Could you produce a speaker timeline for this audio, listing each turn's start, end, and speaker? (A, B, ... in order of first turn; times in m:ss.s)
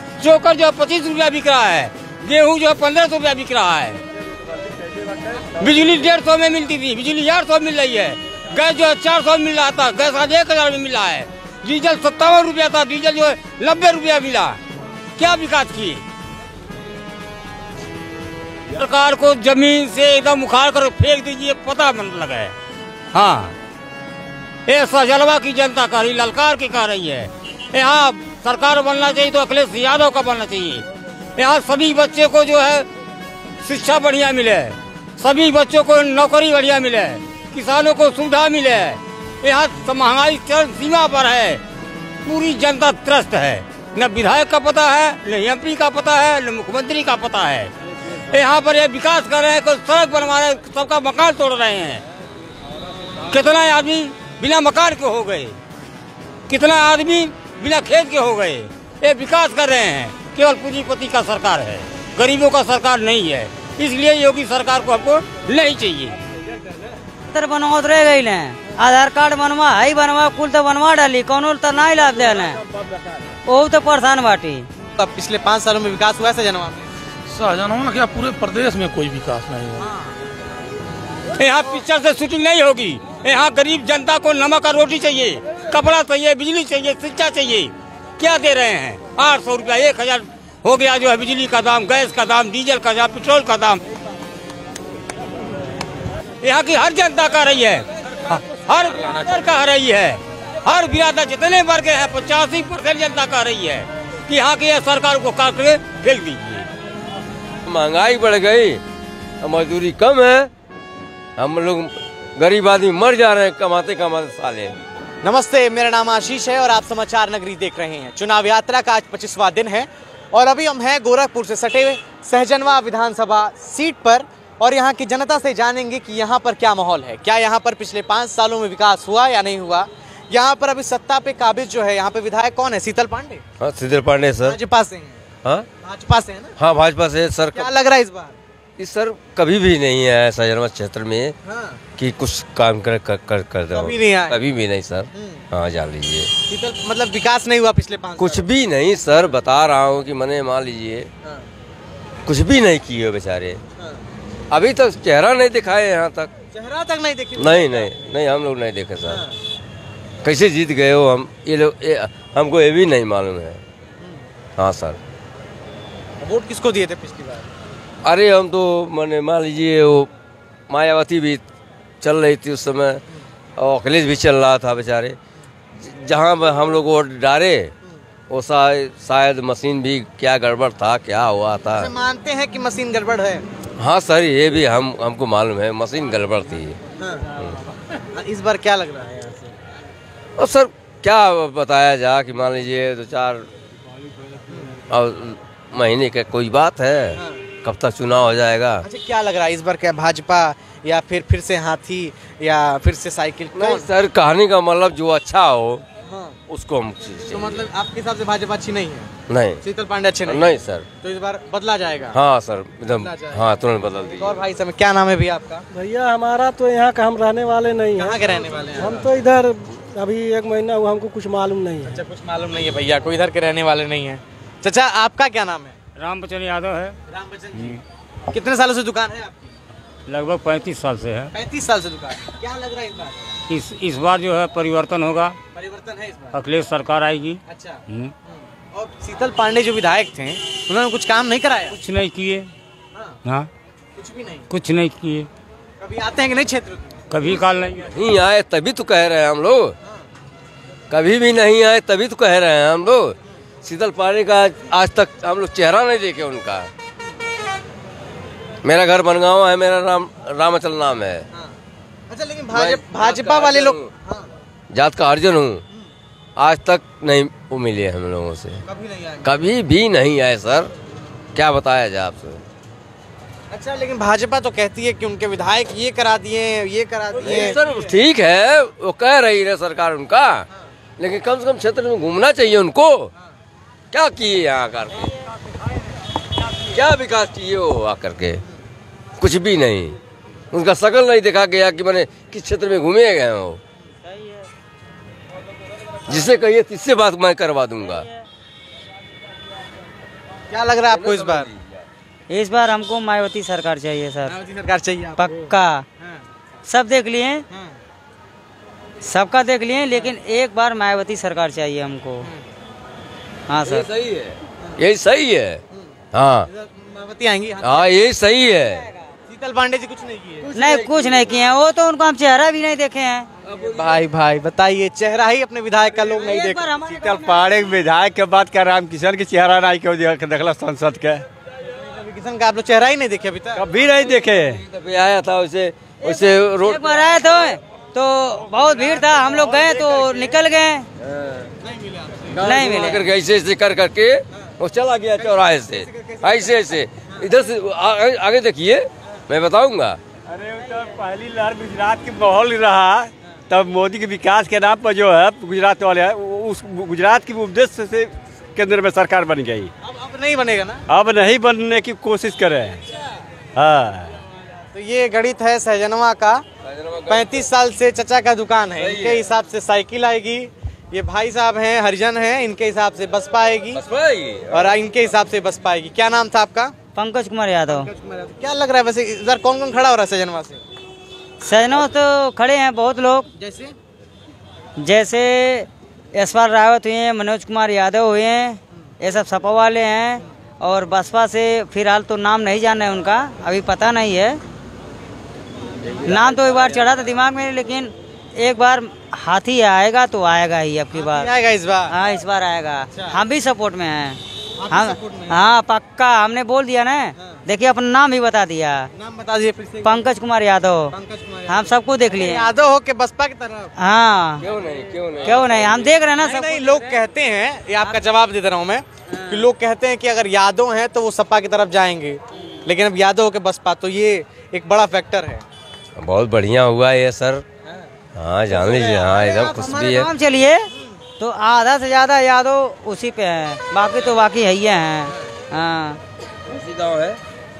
0:00.2-0:04.0 A
0:05.5-0:14.6 A
0:15.2-0:16.0 A
0:18.7-0:22.6 A
0:23.1-0:23.6 A
0:24.7-0:32.9 A
0:33.6-0:41.6 A
0:42.2-0:52.0 A
0:53.2-0:55.6 A
0:56.5-1:06.2 A
1:07.3-1:12.6 B
1:13.4-1:14.7 B
1:15.0-1:16.9 C
1:17.3-1:19.9 D
1:19.8-1:20.1 C
1:21.4-1:33.8 A
1:36.4-1:46.7 A
1:38.2-1:39.4 D
1:47.7-1:48.8 E
1:49.4-1:50.5 E
1:51.4-1:54.8 E
1:55.2-2:13.4 C
2:13.6-2:14.6 E
2:14.4-2:15.2 C
2:15.8-2:16.5 C
2:16.6-2:17.7 E
2:17.5-2:18.3 C
2:18.8-2:21.3 E
2:21.5-2:21.8 C
2:22.0-2:26.3 E
2:23.7-2:24.4 C
2:25.1-2:25.4 C
2:26.5-2:28.4 C
2:28.2-2:31.1 E
2:32.2-2:33.6 E
2:34.5-2:36.3 E
2:36.5-2:38.0 C
2:37.4-2:39.2 E
2:40.2-2:43.6 E
2:44.6-2:45.0 E
2:46.2-2:47.5 C
2:48.0-2:50.1 E
2:50.7-2:51.4 E
2:52.0-2:53.0 E
2:53.6-2:55.2 E
2:55.8-2:57.7 E
2:58.3-3:01.9 E
3:01.7-3:03.4 C
3:03.8-3:06.8 E
3:07.0-3:07.3 C
3:08.1-3:09.5 C
3:10.4-3:13.5 E
3:14.5-3:14.7 C
3:14.9-3:18.8 E
3:17.2-3:17.4 C
3:18.8-3:23.9 C
3:23.5-3:25.8 E
3:26.1-3:26.4 C
3:26.5-3:27.6 E
3:27.3-3:29.1 C
3:29.3-3:29.6 E
3:29.6-3:32.2 C
3:30.2-3:30.8 E
3:32.1-3:34.4 E
3:33.0-3:33.4 C
3:34.0-3:35.7 C
3:35.7-3:42.0 F
3:38.0-3:39.0 C
3:41.8-3:45.8 C
3:46.0-3:47.0 A
3:47.1-3:49.5 C
3:50.1-3:51.3 A
3:51.3-3:53.3 C
3:53.5-3:55.4 A
3:55.5-3:56.4 C
3:56.3-3:58.1 A
3:57.5-4:01.7 C
4:01.7-4:02.5 A
4:03.2-4:03.5 A
4:04.0-4:04.5 C
4:04.5-4:05.3 A
4:05.8-4:07.2 C
4:07.1-4:08.0 A
4:07.9-4:09.7 E
4:10.9-4:16.7 E
4:18.6-4:21.2 E
4:22.1-4:24.3 C
4:22.5-4:23.9 E
4:24.7-4:25.6 E
4:26.4-4:28.6 E
4:28.7-4:29.3 C
4:29.2-4:30.7 E
4:31.4-4:32.4 E
4:33.5-4:37.6 C
4:37.2-4:40.5 E
4:41.0-4:43.1 E
4:43.9-4:45.1 E
4:46.7-4:48.4 E
4:49.2-4:50.0 E
4:50.5-4:53.6 E
4:54.1-4:54.4 B
4:56.1-4:58.1 E
5:00.5-5:01.5 C
5:00.9-5:01.5 E
5:02.3-5:04.4 B
5:04.2-5:05.5 C
5:05.2-5:05.8 B
5:06.7-5:07.4 B
5:07.5-5:07.8 C
5:09.0-5:12.3 B
5:13.5-5:13.9 B
5:13.7-5:15.6 E
5:16.1-5:16.5 E
5:16.5-5:18.1 C
5:17.6-5:18.9 E
5:19.3-5:20.5 C
5:20.5-5:23.3 B
5:20.6-5:21.2 E
5:23.6-5:26.5 C
5:26.2-5:27.4 B
5:26.3-5:31.2 G
5:31.8-5:33.7 C
5:33.6-5:34.6 G
5:34.7-5:36.9 E
5:36.6-5:40.9 B
5:41.6-5:42.4 C
5:42.3-5:50.0 E
5:42.4-5:43.0 B
5:45.2-5:46.8 C
5:50.3-5:59.7 G
5:59.8-6:00.8 C
6:00.9-6:02.8 G
6:03.6-6:04.2 G
6:04.7-6:06.4 C
6:06.7-6:07.4 E
6:07.1-6:13.8 C
6:08.8-6:09.2 E
6:13.7-6:14.7 E
6:14.5-6:16.8 C
6:16.9-6:17.9 B
6:17.7-6:20.6 C
6:21.4-6:23.3 B
6:23.4-6:23.8 C
6:24.8-6:34.4 B
6:36.0-6:41.3 B
6:40.9-6:41.9 C
6:41.9-6:48.9 B
6:42.9-6:43.2 C
6:44.6-6:45.4 C
6:49.0-6:50.0 C
6:49.8-6:50.9 B
6:50.9-6:53.7 C
6:51.5-6:52.5 B
6:53.8-6:54.5 B
6:54.4-6:56.0 E
6:55.2-6:57.0 B
6:56.2-7:05.4 C
7:06.0-7:07.4 E
7:08.2-7:10.1 E
7:08.5-7:10.1 C
7:09.3-7:16.0 B
7:16.5-7:17.2 E